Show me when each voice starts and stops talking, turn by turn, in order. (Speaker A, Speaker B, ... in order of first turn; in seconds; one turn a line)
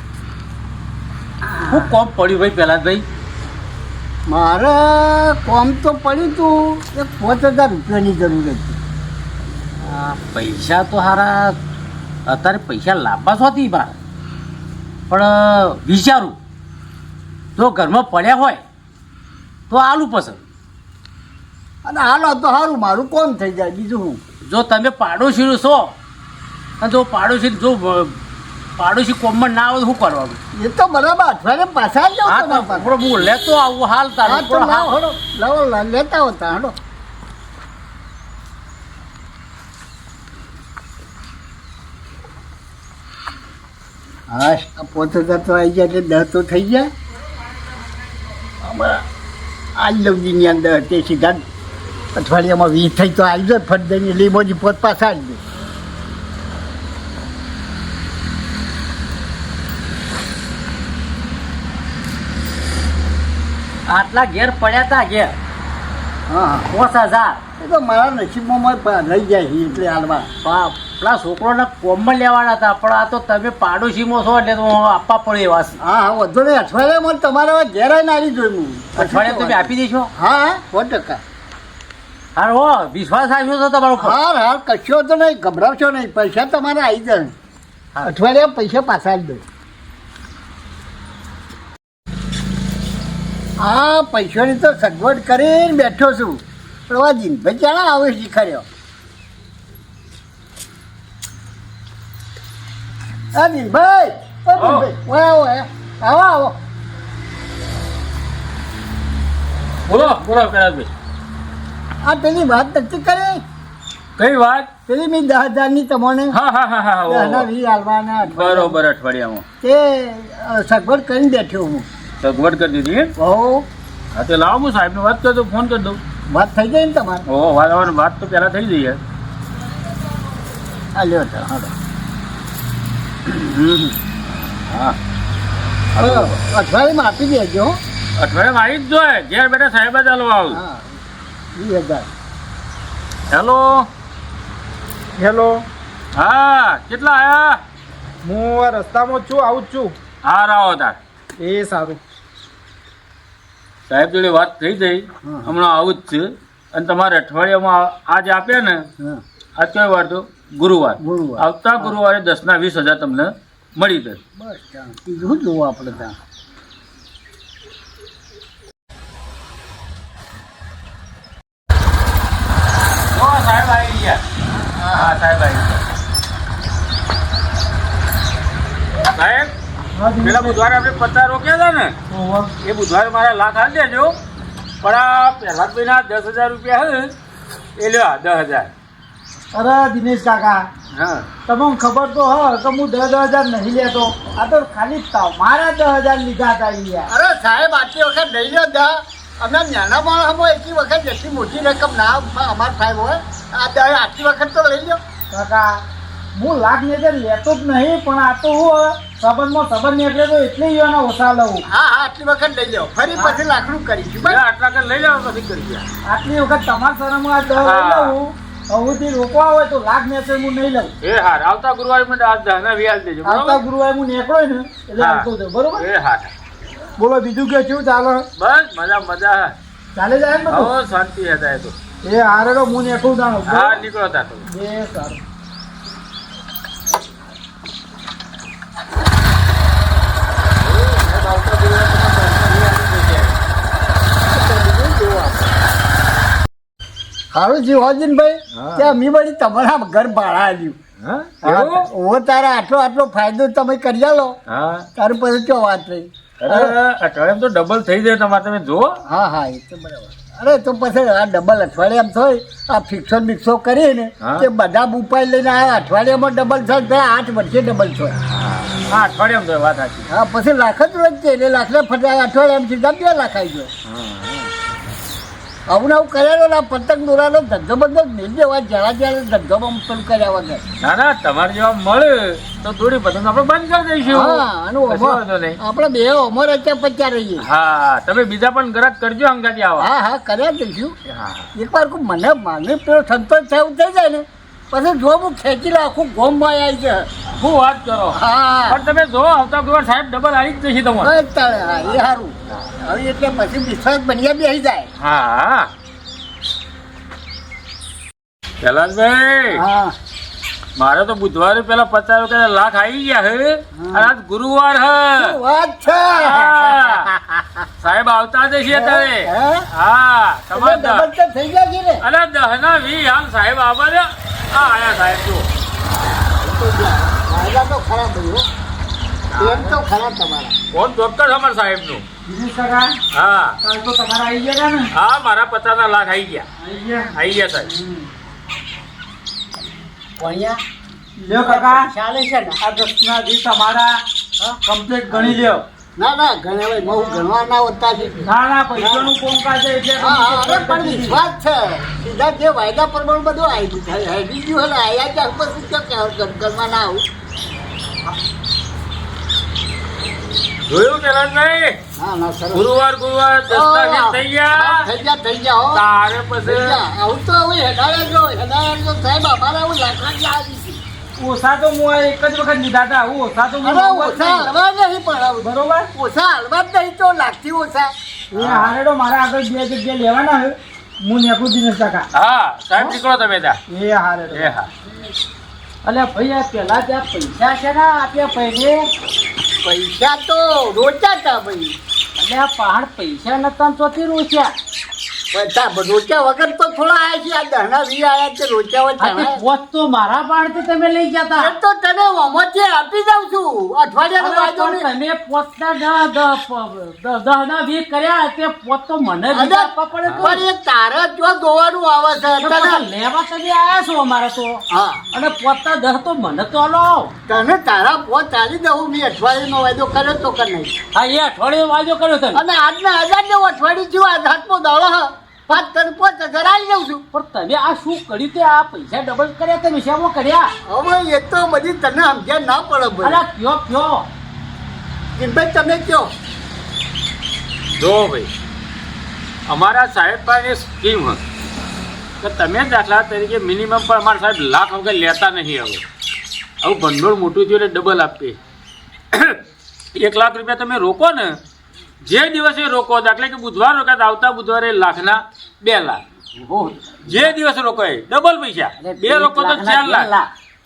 Speaker A: 1.5-1.9
Speaker B: 1.7-3.0
Speaker A: 4.3-8.8
Speaker B: 9.8-11.6
Speaker B: 12.3-14.0
Speaker B: 15.1-16.4
Speaker B: 17.6-18.6
Speaker B: 19.7-20.4
Speaker A: 21.9-24.2
Speaker B: 24.5-25.9
Speaker B: 26.8-28.2
Speaker B: 28.8-30.4
Speaker A: 30.6-33.3
Speaker B: 32.3-34.9
Speaker A: 34.2-36.8
Speaker A: 44.3-46.9
Speaker A: 48.6-49.0
Speaker A: 49.8-51.4
Speaker A: 52.2-55.4
Speaker B: 63.9-65.3
Speaker A: 66.3-66.7
Speaker B: 66.7-67.4
Speaker A: 67.6-70.3
Speaker B: 70.4-75.8
Speaker A: 75.8-81.2
Speaker B: 79.0-80.1
Speaker B: 82.4-84.2
Speaker A: 84.0-87.3
Speaker A: 88.0-89.4
Speaker A: 93.6-98.7
Speaker A: 103.3-106.6
Speaker C: 104.6-104.9
Speaker C: 109.9-110.9
Speaker A: 112.0-113.4
Speaker C: 114.2-114.7
Speaker A: 114.9-116.4
Speaker C: 116.3-117.5
Speaker A: 117.1-118.8
Speaker C: 118.2-119.5
Speaker A: 119.6-121.9
Speaker C: 122.2-123.1
Speaker A: 123.2-123.7
Speaker C: 124.1-126.0
Speaker A: 126.3-127.2
Speaker C: 127.3-129.0
Speaker A: 131.0-131.7
Speaker A: 133.3-133.9
Speaker C: 134.7-135.0
Speaker C: 135.9-136.4
Speaker A: 136.0-137.8
Speaker C: 138.2-140.6
Speaker A: 140.5-140.9
Speaker A: 141.6-142.1
Speaker C: 143.3-143.9
Speaker D: 145.2-145.7
Speaker C: 146.1-147.6
Speaker D: 148.2-149.9
Speaker C: 150.2-151.0
Speaker D: 151.4-152.0
Speaker C: 153.9-158.8
Speaker A: 155.2-155.5
Speaker C: 159.6-164.2
Speaker A: 161.0-161.9
Speaker A: 164.4-166.2
Speaker C: 173.1-174.2
Speaker A: 174.5-175.2
Speaker C: 174.9-175.8
Speaker C: 179.2-179.6
Speaker D: 179.9-180.6
Speaker C: 180.2-182.0
Speaker D: 182.1-182.5
Speaker C: 182.6-184.2
Speaker C: 184.8-187.1
Speaker C: 187.8-188.7
Speaker D: 189.5-190.7
Speaker C: 191.0-191.2
Speaker D: 191.5-197.1
Speaker A: 197.1-205.0
Speaker D: 205.3-205.8
Speaker D: 206.3-211.7
Speaker A: 211.7-214.4
Speaker C: 214.2-215.9
Speaker D: 216.1-220.9
Speaker C: 217.6-218.2
Speaker C: 221.0-223.6
Speaker D: 223.5-225.9
Speaker C: 225.0-226.3
Speaker D: 227.0-228.3
Speaker C: 228.4-229.6
Speaker D: 230.0-230.7
Speaker C: 230.5-231.8
Speaker D: 232.0-233.8
Speaker C: 233.4-234.5
Speaker D: 234.5-235.2
Speaker C: 240.6-243.4
Speaker A: 244.3-245.6
Speaker A: 247.3-250.8
Speaker C: 248.5-248.9
Speaker C: 251.0-251.9
Speaker A: 251.4-254.4
Speaker C: 254.5-254.9
Speaker A: 255.0-256.7
Speaker C: 256.4-259.0
Speaker A: 259.1-268.1
Speaker C: 264.2-264.5
Speaker C: 268.2-270.1
Speaker A: 270.1-273.7
Speaker C: 273.9-274.5
Speaker A: 275.7-280.6
Speaker C: 280.8-285.6
Speaker A: 284.1-287.4
Speaker C: 287.4-289.9
Speaker A: 289.8-290.9
Speaker C: 291.1-291.5
Speaker A: 291.6-297.1
Speaker C: 297.4-298.2
Speaker A: 298.1-298.8
Speaker C: 298.7-301.1
Speaker A: 301.0-304.9
Speaker C: 305.0-305.7
Speaker C: 308.6-309.6
Speaker A: 309.5-310.0
Speaker C: 310.8-315.4
Speaker A: 313.8-314.1
Speaker A: 315.2-317.6
Speaker C: 316.1-317.1
Speaker C: 317.8-321.1
Speaker A: 318.7-319.6
Speaker A: 320.5-322.0
Speaker C: 322.0-325.5
Speaker A: 326.3-328.4
Speaker C: 329.3-329.7
Speaker A: 329.4-330.5
Speaker C: 330.7-332.0
Speaker D: 332.3-333.0
Speaker C: 333.1-333.6
Speaker D: 333.6-334.9
Speaker C: 334.9-336.5
Speaker D: 336.6-337.1
Speaker C: 337.1-337.7
Speaker B: 340.2-340.6
Speaker D: 341.2-341.9
Speaker B: 341.4-342.6
Speaker D: 342.6-344.0
Speaker D: 344.6-345.6
Speaker A: 346.0-349.1
Speaker D: 348.2-351.2
Speaker A: 350.0-357.0
Speaker C: 360.7-361.8
Speaker A: 362.0-362.7
Speaker C: 362.5-364.9
Speaker A: 363.5-365.8
Speaker C: 365.7-366.8
Speaker A: 366.4-370.8
Speaker D: 371.2-374.5
Speaker A: 373.6-378.7
Speaker D: 375.4-375.9
Speaker D: 378.4-382.1
Speaker C: 382.1-383.6
Speaker D: 383.7-384.5
Speaker C: 384.3-384.7
Speaker B: 385.8-388.9
Speaker A: 389.6-391.7
Speaker B: 392.2-394.5
Speaker A: 395.3-399.4
Speaker B: 399.0-401.6
Speaker A: 401.4-404.9
Speaker B: 404.2-410.4
Speaker A: 409.3-412.9
Speaker C: 410.1-410.4
Speaker B: 412.4-417.1
Speaker A: 414.7-415.0
Speaker A: 417.3-420.7
Speaker B: 420.9-422.4
Speaker A: 422.3-427.0
Speaker B: 427.1-430.5
Speaker A: 430.7-433.2
Speaker B: 433.0-434.1
Speaker A: 435.2-436.1
Speaker C: 437.8-438.3
Speaker C: 439.5-441.2
Speaker C: 442.2-445.8
Speaker C: 446.6-448.4
Speaker C: 449.1-449.4
Speaker C: 449.9-451.4
Speaker C: 452.0-456.0
Speaker B: 456.4-457.0
Speaker C: 457.1-460.1
Speaker B: 458.8-460.3